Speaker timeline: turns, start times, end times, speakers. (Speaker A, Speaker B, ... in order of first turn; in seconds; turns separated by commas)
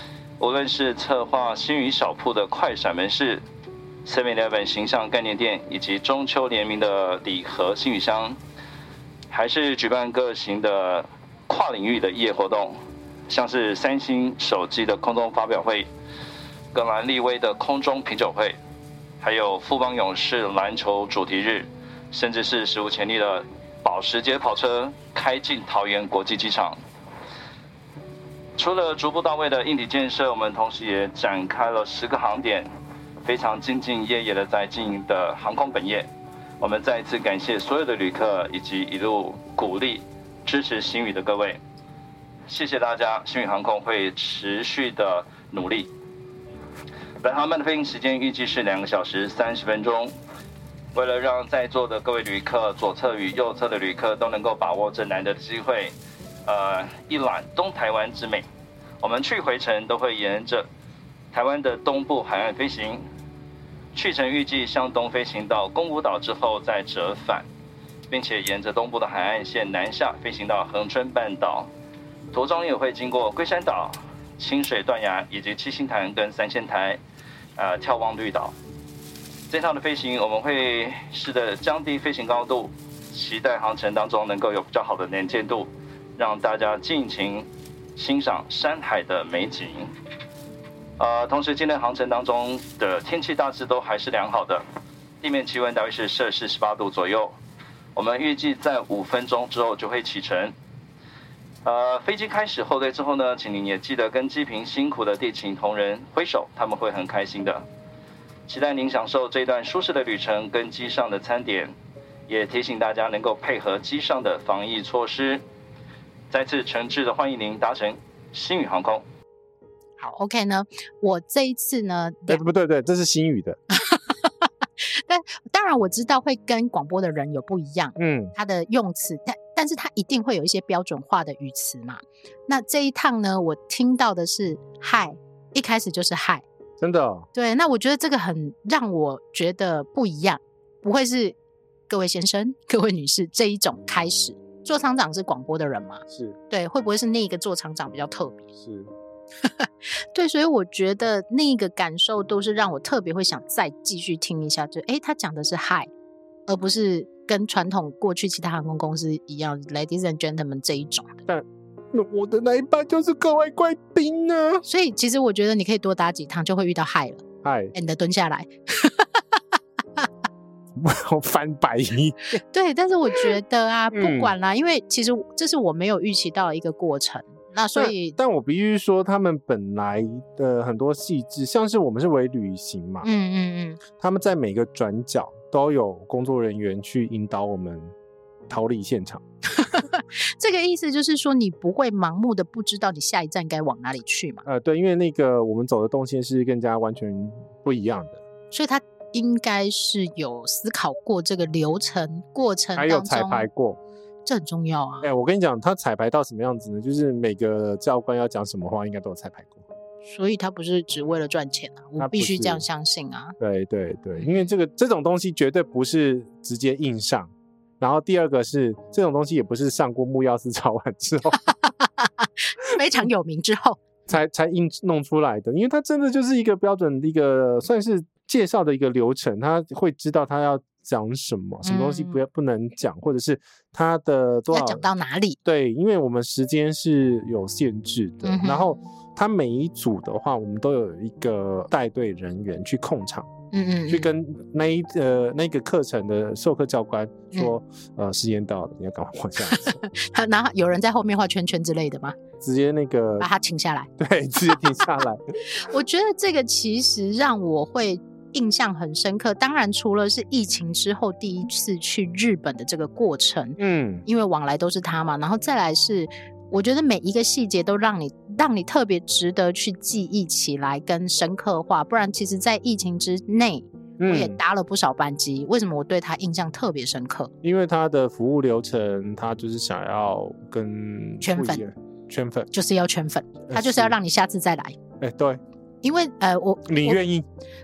Speaker A: 0.4-3.4, Speaker A: 4.0-8.4, Speaker A: 9.3-15.9, Speaker A: 16.7-18.6, Speaker A: 19.2-26.8, Speaker A: 28.6-32.7, Speaker A: 33.2-41.6, Speaker A: 42.5-45.9, Speaker A: 47.2-50.1, Speaker A: 50.9-55.9, Speaker A: 56.5-58.5, Speaker A: 59.0-60.7, Speaker A: 61.3-63.0, Speaker A: 63.9-67.5, Speaker A: 68.1-71.7, Speaker A: 72.3-77.0, Speaker A: 77.5-78.5, Speaker A: 79.5-89.9, Speaker A: 91.0-94.6, Speaker A: 95.2-97.3, Speaker A: 97.9-100.5, Speaker A: 101.6-107.7, Speaker A: 108.5-111.7, Speaker A: 112.3-115.4, Speaker A: 116.3-119.0, Speaker B: 120.0-122.4, Speaker C: 122.3-123.6, Speaker B: 123.7-136.4, Speaker C: 128.0-128.3, Speaker C: 136.8-137.3, Speaker B: 137.3-141.4, Speaker B: 141.9-148.5, Speaker C: 146.1-146.4, Speaker C: 148.6-148.9, Speaker B: 149.4-155.9, Speaker B: 156.5-161.2, Speaker C: 161.3-164.6, Speaker B: 164.7-169.2, Speaker C: 167.4-167.7, Speaker C: 170.8-172.4, Speaker B: 172.5-178.2, Speaker C: 173.9-174.3, Speaker C: 177.8-183.1, Speaker B: 183.0-183.8, Speaker C: 184.0-187.9, Speaker C: 188.5-189.2, Speaker B: 189.6-194.4, Speaker C: 194.4-198.2, Speaker B: 198.5-203.5, Speaker C: 202.8-203.8, Speaker B: 204.3-205.1, Speaker C: 205.0-209.6, Speaker B: 210.0-213.3, Speaker C: 212.0-212.6, Speaker C: 213.4-221.4, Speaker B: 214.2-214.5, Speaker B: 221.4-223.8, Speaker C: 224.1-234.9, Speaker B: 231.6-232.2, Speaker B: 234.5-235.4, Speaker C: 235.4-243.3, Speaker B: 238.2-238.8, Speaker B: 243.5-244.1, Speaker C: 243.9-249.8, Speaker B: 249.4-252.2, Speaker C: 252.4-253.3, Speaker B: 253.2-253.9, Speaker C: 254.0-255.2, Speaker B: 254.5-254.9, Speaker B: 255.5-277.3, Speaker C: 263.6-264.1, Speaker C: 274.0-274.4, Speaker C: 277.4-282.5, Speaker B: 281.2-281.6, Speaker B: 282.5-284.8, Speaker C: 283.5-283.9, Speaker C: 285.0-285.4, Speaker B: 285.8-287.0, Speaker C: 286.6-287.3